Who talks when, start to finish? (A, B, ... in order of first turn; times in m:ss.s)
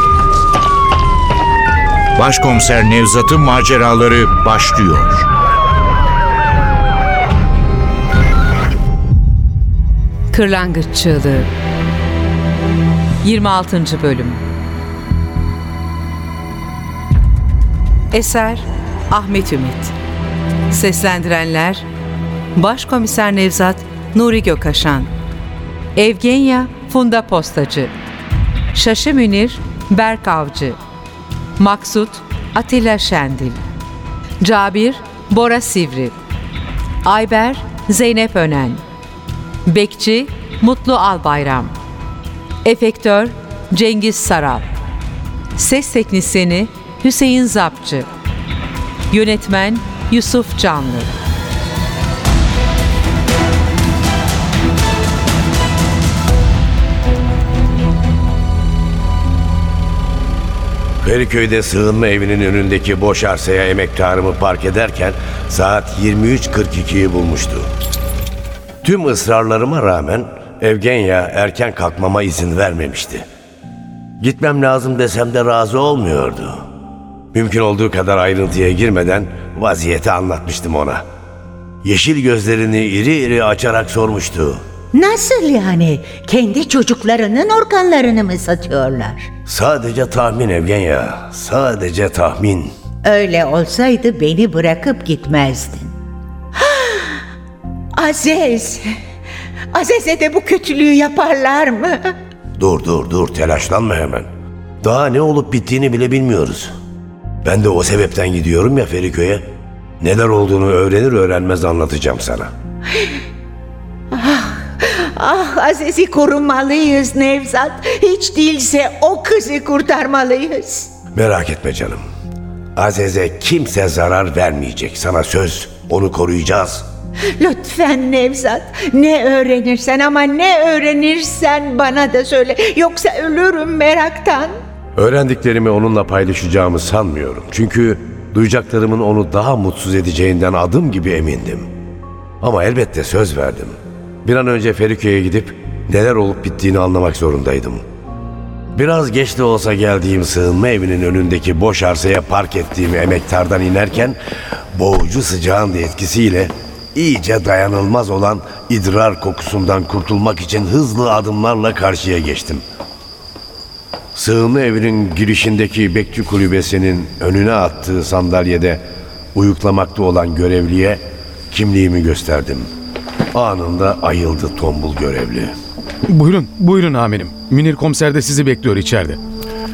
0:02.2-0:05.2 A
0:10.3-0:11.5 B
0:13.2-0:14.4 B
0:18.1-0:19.9 B
0:20.7-0:21.8 B
0:22.6-0:25.1 B
0:26.0-0:27.9 B
0:28.7-0:30.8 B
0:31.6-0:33.6 B
0:34.4-0:36.1 B
0:37.0-0:38.8 B
0:39.6-0:41.7 B
0:42.6-0:44.6 B
0:45.6-0:48.1 B
0:49.1-0:51.1 B
1:01.0-1:07.7 C
1:08.8-1:13.3 C
1:14.2-1:16.6 C
1:17.3-1:21.0 C
1:21.8-1:24.6 C
1:24.9-1:29.3 D
1:29.4-1:32.7 C
1:33.0-1:35.9 D
1:36.6-1:37.2 D
1:38.0-1:38.9 D
1:39.7-1:42.1 D
1:42.6-1:44.3 C
1:44.8-1:46.7 C
1:47.4-1:49.4 C
1:50.0-1:52.5 C
1:54.1-2:00.9 D
2:01.1-2:02.0 C
2:02.8-2:06.8 C
2:07.4-2:14.5 D
2:15.0-2:21.7 C
2:22.4-2:27.8 C
2:28.7-2:34.2 C
2:34.7-2:42.6 C
2:44.1-2:48.8 C
2:49.3-2:52.7 C
2:53.3-2:55.5 C
2:56.1-2:59.2 E